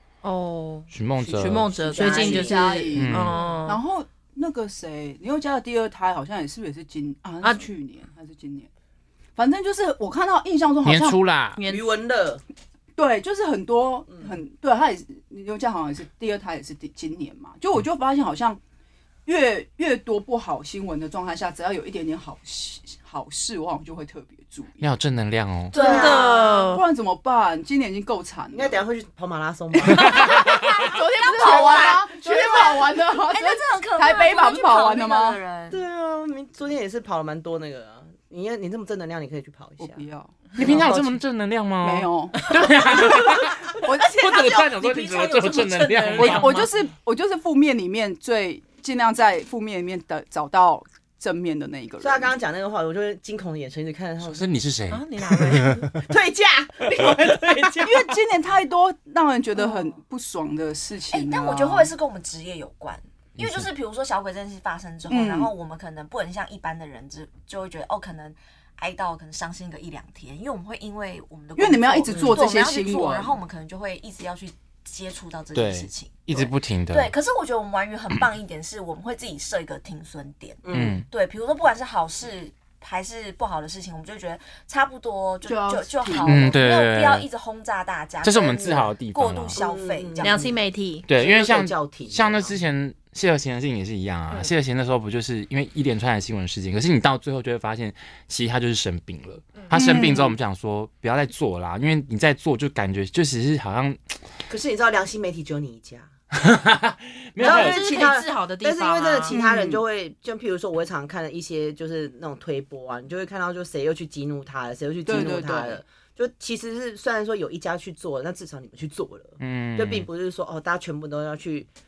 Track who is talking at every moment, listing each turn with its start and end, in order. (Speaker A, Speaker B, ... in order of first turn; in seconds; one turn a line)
Speaker A: 0.2-3.8
Speaker B: 0.9-1.7
Speaker C: 1.2-2.9
Speaker D: 2.0-8.7
Speaker B: 3.0-3.4
Speaker D: 9.4-11.2
Speaker B: 10.8-11.6
Speaker A: 11.6-11.9
Speaker C: 11.6-12.4
Speaker D: 13.0-18.6
Speaker C: 14.1-14.4
Speaker D: 19.3-24.9
Speaker B: 24.8-25.8
Speaker C: 25.7-26.3
Speaker E: 25.7-26.6
Speaker A: 25.7-26.8
Speaker D: 25.9-28.8
Speaker C: 28.5-30.1
Speaker B: 30.0-30.5
Speaker D: 30.0-35.4
Speaker E: 30.1-35.8
Speaker C: 35.7-41.1
Speaker D: 39.8-41.0
Speaker B: 40.6-46.6
Speaker D: 41.8-42.4
Speaker A: 42.4-43.2
Speaker D: 43.8-44.1
Speaker A: 43.9-46.7
Speaker D: 46.2-52.3
Speaker C: 52.0-54.5
Speaker B: 54.2-55.9
Speaker A: 54.9-55.9
Speaker C: 56.0-58.1
Speaker D: 57.8-61.9
Speaker E: 59.6-59.9
Speaker E: 61.1-90.6
Speaker B: 63.4-63.7
Speaker D: 65.1-65.5
Speaker D: 71.6-73.4
Speaker C: 72.1-72.4
Speaker B: 75.5-77.1
Speaker C: 80.6-81.0
Speaker B: 80.7-81.1
Speaker D: 85.5-86.5
Speaker B: 86.2-87.3
Speaker B: 88.2-89.6
Speaker C: 89.5-90.6
Speaker A: 90.2-91.1
Speaker B: 91.1-104.0
Speaker C: 91.1-92.6
Speaker E: 99.6-100.0
Speaker D: 99.7-100.4
Speaker C: 104.5-106.1
Speaker B: 106.3-108.0
Speaker A: 107.4-109.3
Speaker C: 107.4-121.7
Speaker D: 109.3-109.8
Speaker D: 115.1-115.8
Speaker B: 119.4-120.1